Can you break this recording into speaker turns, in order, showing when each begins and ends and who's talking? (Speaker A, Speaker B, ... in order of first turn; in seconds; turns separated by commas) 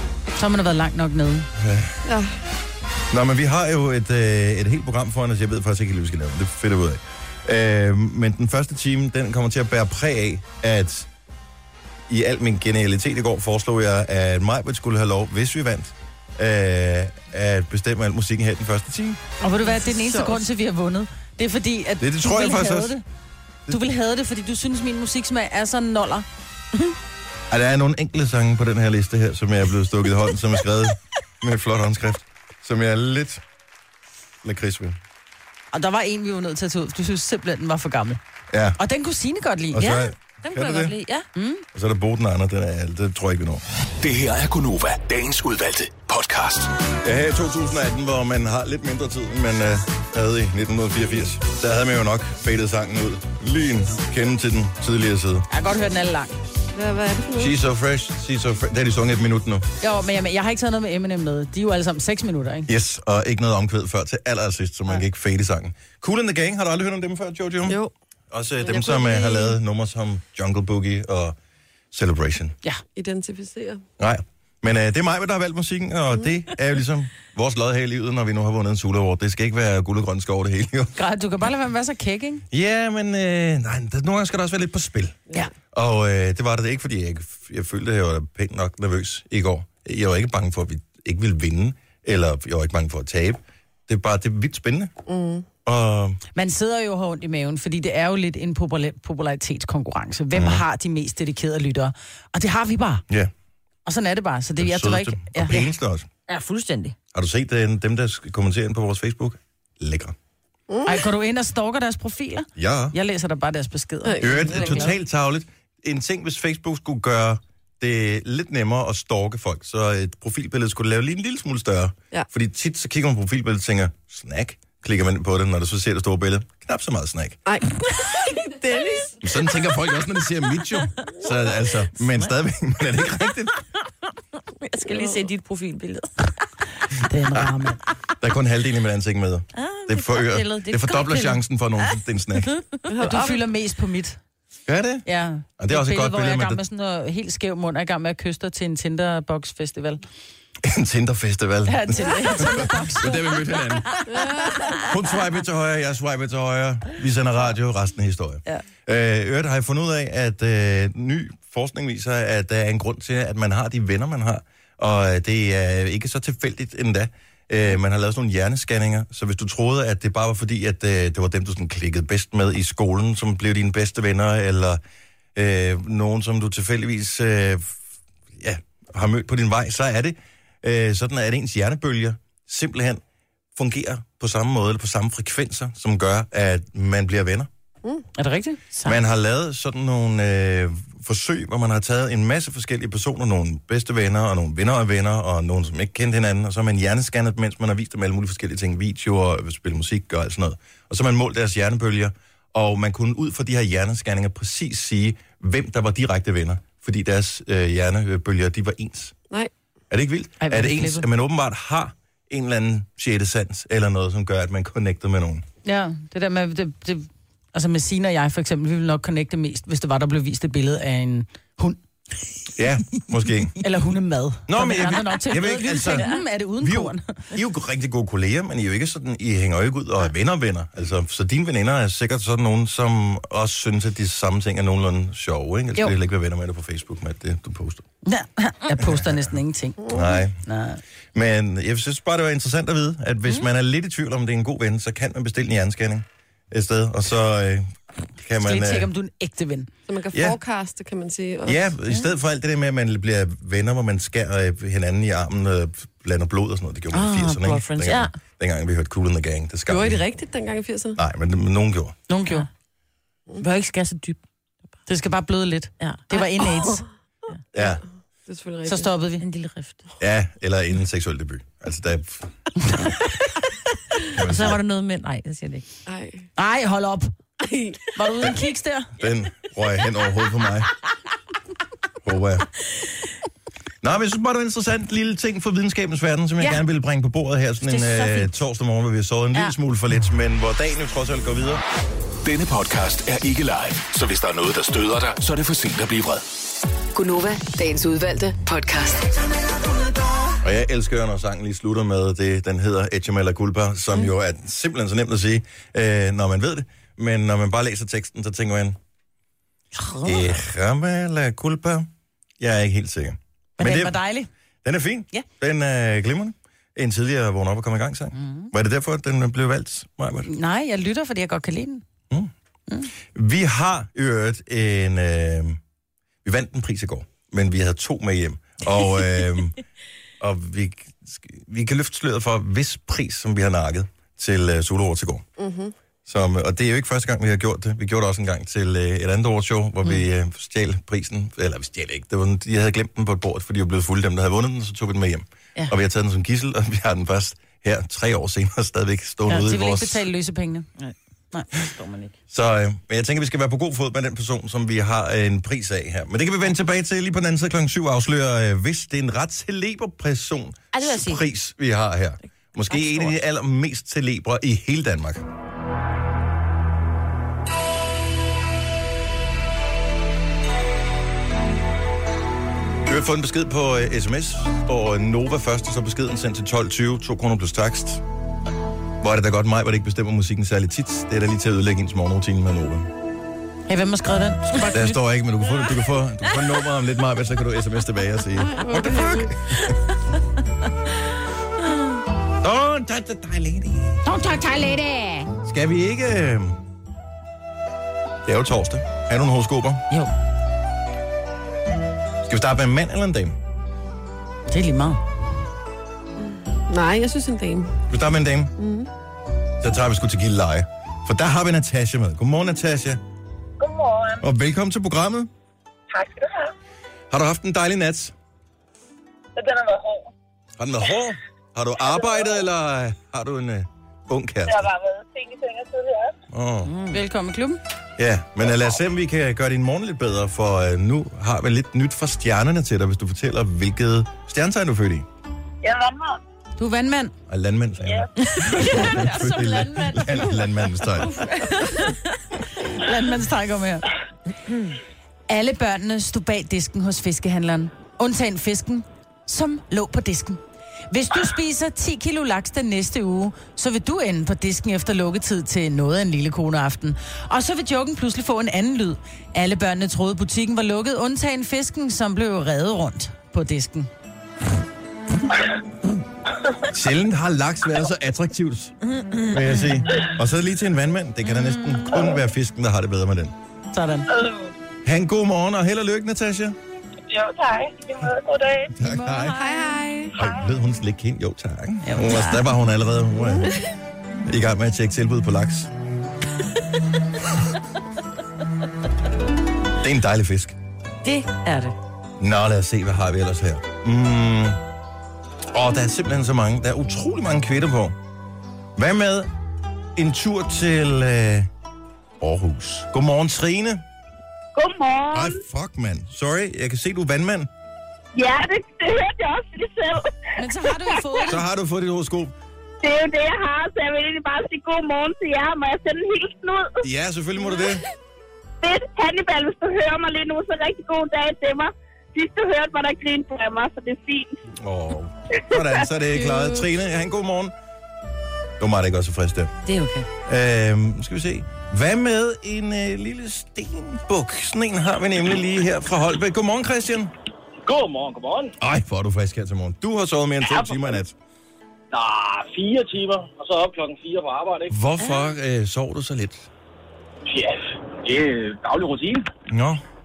Speaker A: 0.4-1.5, Speaker B: 1.6-2.1, Speaker C: 2.0-2.3, Speaker B: 3.1-11.1, Speaker B: 12.1-19.2, Speaker A: 19.4-23.0, Speaker C: 19.6-20.4, Speaker B: 22.0-22.9, Speaker A: 23.7-26.3, Speaker B: 27.5-33.4, Speaker B: 34.4-35.0, Speaker A: 35.7-38.2, Speaker B: 38.5-38.8, Speaker A: 38.8-39.9, Speaker B: 39.7-40.9, Speaker D: 39.8-41.3, Speaker A: 41.4-41.6, Speaker B: 41.7-43.6, Speaker E: 44.0-46.9, Speaker B: 47.0-55.5, Speaker A: 55.5-56.4, Speaker C: 56.7-57.5, Speaker B: 57.4-59.7, Speaker A: 59.8-62.7, Speaker B: 62.7-67.8, Speaker C: 67.7-67.9, Speaker B: 68.3-71.4, Speaker C: 68.6-69.6, Speaker B: 71.9-72.6, Speaker C: 73.0-73.8, Speaker B: 74.0-81.0, Speaker A: 81.0-82.4, Speaker B: 82.5-94.9, Speaker C: 95.1-95.5, Speaker B: 95.7-96.2, Speaker A: 96.3-103.0, Speaker B: 100.3-100.6, Speaker A: 103.9-105.7, Speaker B: 104.6-106.1, Speaker D: 106.3-107.0, Speaker B: 107.1-110.2, Speaker C: 110.7-111.0, Speaker A: 110.8-114.9, Speaker B: 112.6-113.0, Speaker C: 114.0-114.9, Speaker B: 114.2-127.4, Speaker C: 127.5-129.2, Speaker B: 129.2-133.6, Speaker D: 134.6-136.4, Speaker C: 134.9-135.2, Speaker A: 137.0-137.8, Speaker B: 138.2-142.6, Speaker D: 139.5-141.9, Speaker C: 142.9-143.4, Speaker A: 143.0-144.2, Speaker B: 144.7-145.1, Speaker A: 145.1-150.0, Speaker B: 145.6-146.6, Speaker B: 150.6-154.0, Speaker A: 151.7-154.0, Speaker C: 154.1-154.8, Speaker B: 154.8-174.8, Speaker B: 175.3-177.8, Speaker B: 178.4-183.0, Speaker B: 183.6-187.5, Speaker A: 188.2-189.0, Speaker B: 188.8-209.2, Speaker B: 209.9-215.4, Speaker A: 210.4-211.1, Speaker A: 215.7-221.8, Speaker B: 222.6-223.6, Speaker A: 223.6-227.2, Speaker B: 224.5-237.9, Speaker D: 225.9-226.2, Speaker A: 238.1-240.8, Speaker B: 238.8-239.3, Speaker C: 239.9-240.1, Speaker B: 239.9-240.4, Speaker B: 241.1-248.9, Speaker A: 248.4-249.7, Speaker C: 249.9-251.7, Speaker B: 250.1-250.4, Speaker B: 251.5-260.0, Speaker D: 256.9-258.1, Speaker C: 259.7-261.0, Speaker B: 261.0-262.0, Speaker A: 262.1-262.5, Speaker D: 263.4-264.2, Speaker A: 264.9-266.8, Speaker D: 265.8-266.3, Speaker B: 267.5-267.8, Speaker C: 267.6-268.9, Speaker A: 268.7-269.2, Speaker D: 269.2-269.9, Speaker B: 270.0-272.3, Speaker D: 274.1-275.6, Speaker B: 274.1-274.6, Speaker C: 275.9-276.3, Speaker A: 276.4-277.1, Speaker C: 277.4-277.9, Speaker A: 277.9-278.9, Speaker B: 279.0-280.7, Speaker B: 282.0-282.5, Speaker B: 283.8-291.6, Speaker D: 287.7-288.3, Speaker E: 292.2-296.2, Speaker F: 296.9-299.2, Speaker B: 300.4-308.8, Speaker A: 309.8-310.2, Speaker B: 310.0-314.0, Speaker A: 313.6-314.3, Speaker B: 314.6-320.3, Speaker A: 318.1-318.5, Speaker A: 320.3-321.8, Speaker B: 323.0-325.6, Speaker B: 326.2-329.6, Speaker B: 330.2-335.3, Speaker C: 335.4-335.8, Speaker B: 336.1-350.1, Speaker A: 349.3-350.7, Speaker D: 351.5-352.1, Speaker B: 352.3-365.2, Speaker D: 360.7-361.3, Speaker D: 362.7-363.1, Speaker B: 372.9-378.0, Speaker B: 379.0-382.9, Speaker A: 383.7-385.0, Speaker B: 384.7-389.8, Speaker C: 388.4-389.3, Speaker B: 392.4-394.1, Speaker A: 394.1-395.3, Speaker B: 395.4-396.6, Speaker B: 398.2-399.8, Speaker B: 402.2-403.4, Speaker A: 404.5-405.0, Speaker C: 406.2-407.8, Speaker B: 407.9-408.6, Speaker C: 408.6-408.9, Speaker B: 409.6-413.0, Speaker B: 414.2-415.3, Speaker B: 417.1-418.1, Speaker B: 420.6-424.7, Speaker G: 424.9-425.9, Speaker B: 426.3-426.7, Speaker D: 426.7-427.0, Speaker A: 426.9-427.6, Speaker B: 428.0-435.1, Speaker A: 436.6-437.1, Speaker B: 437.3-441.2, Speaker A: 438.3-442.0, Speaker A: 442.6-443.9, Speaker A: 445.3-463.9, Speaker B: 466.7-468.8, Speaker D: 469.0-469.7, Speaker B: 469.3-473.3, Speaker A: 473.7-474.1, Speaker B: 474.8-476.6, Speaker B: 478.7-479.4, Speaker A: 478.8-479.8, Speaker C: 479.4-480.2, Speaker B: 480.1-483.6, Speaker A: 481.8-482.4, Speaker C: 483.3-483.6, Speaker B: 484.2-485.7, Speaker B: 489.8-490.6, Speaker D: 491.0-491.8, Speaker B: 492.2-494.6, Speaker B: 495.5-498.0, Speaker B: 498.8-499.3, Speaker B: 500.0-501.5, Speaker B: 502.2-503.8, Speaker G: 504.6-505.4, Speaker B: 505.1-507.5, Speaker G: 508.1-510.2, Speaker A: 510.4-511.4, Speaker B: 511.2-512.3, Speaker G: 512.8-516.8, Speaker B: 516.8-517.8, Speaker G: 518.6-524.4, Speaker B: 524.6-527.5, Speaker C: 526.1-526.6, Speaker B: 528.6-529.5, Speaker D: 529.6-530.1, Speaker B: 530.3-537.1, Speaker H: 537.6-538.5, Speaker B: 538.6-541.1, Speaker H: 540.5-541.0, Speaker H: 541.9-544.7, Speaker B: 544.7-546.5, Speaker H: 547.3-549.3, Speaker B: 549.5-549.8